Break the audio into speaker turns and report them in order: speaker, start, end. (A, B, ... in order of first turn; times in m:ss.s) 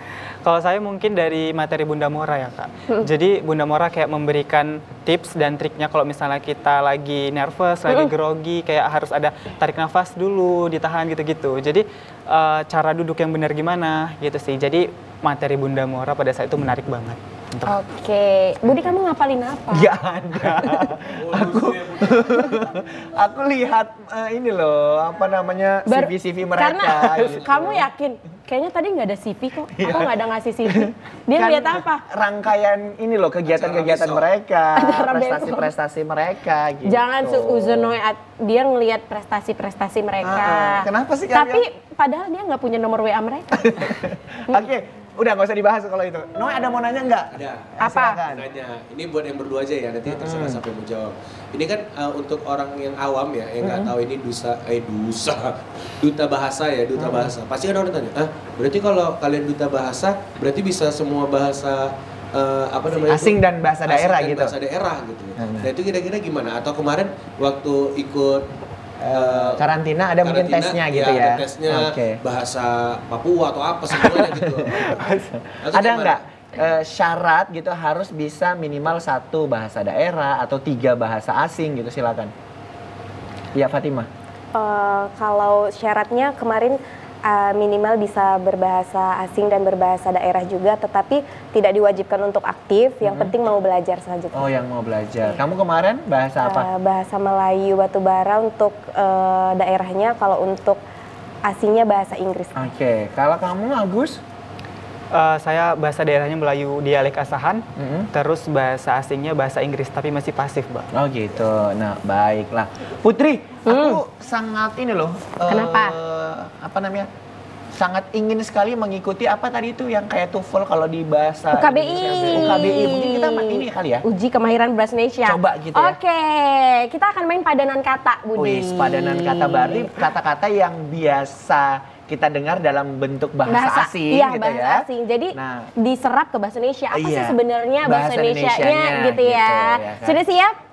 0:00.4-0:17.8 A
0:17.6-0:19.9 B
0:19.7-0:27.8 C
0:21.1-0:22.6 D
0:25.9-0:32.0 B
0:29.8-0:30.2 C
0:30.7-0:38.0 C
0:33.4-0:34.2 D
0:34.7-0:35.7 B
0:36.8-0:44.6 B
0:40.2-0:41.6 C
0:43.5-0:48.5 C
0:47.3-1:08.5 D
0:47.8-0:48.2 B
0:50.0-0:50.6 C
0:53.6-0:53.9 C
0:57.0-0:57.3 C
1:03.1-1:04.6 C
1:05.4-1:05.7 C
1:09.0-1:12.2 C
1:09.0-1:09.6 D
1:10.2-1:15.0 D
1:14.3-1:22.3 C
1:15.0-1:15.3 A
1:15.6-1:16.2 D
1:23.5-1:24.1 C
1:24.5-1:34.5 E
1:33.0-1:33.3 C
1:34.3-1:36.7 C
1:36.4-1:40.8 E
1:41.5-1:42.6 E
1:42.5-1:44.2 C
1:45.1-1:50.9 A
1:47.8-1:48.1 C
1:50.9-1:57.1 C
1:53.6-1:54.0 B
1:55.5-1:56.0 B
1:57.8-2:04.0 C
2:01.5-2:09.9 B
2:05.2-2:06.0 C
2:08.4-2:15.7 C
2:13.4-2:20.6 B
2:16.9-2:20.2 C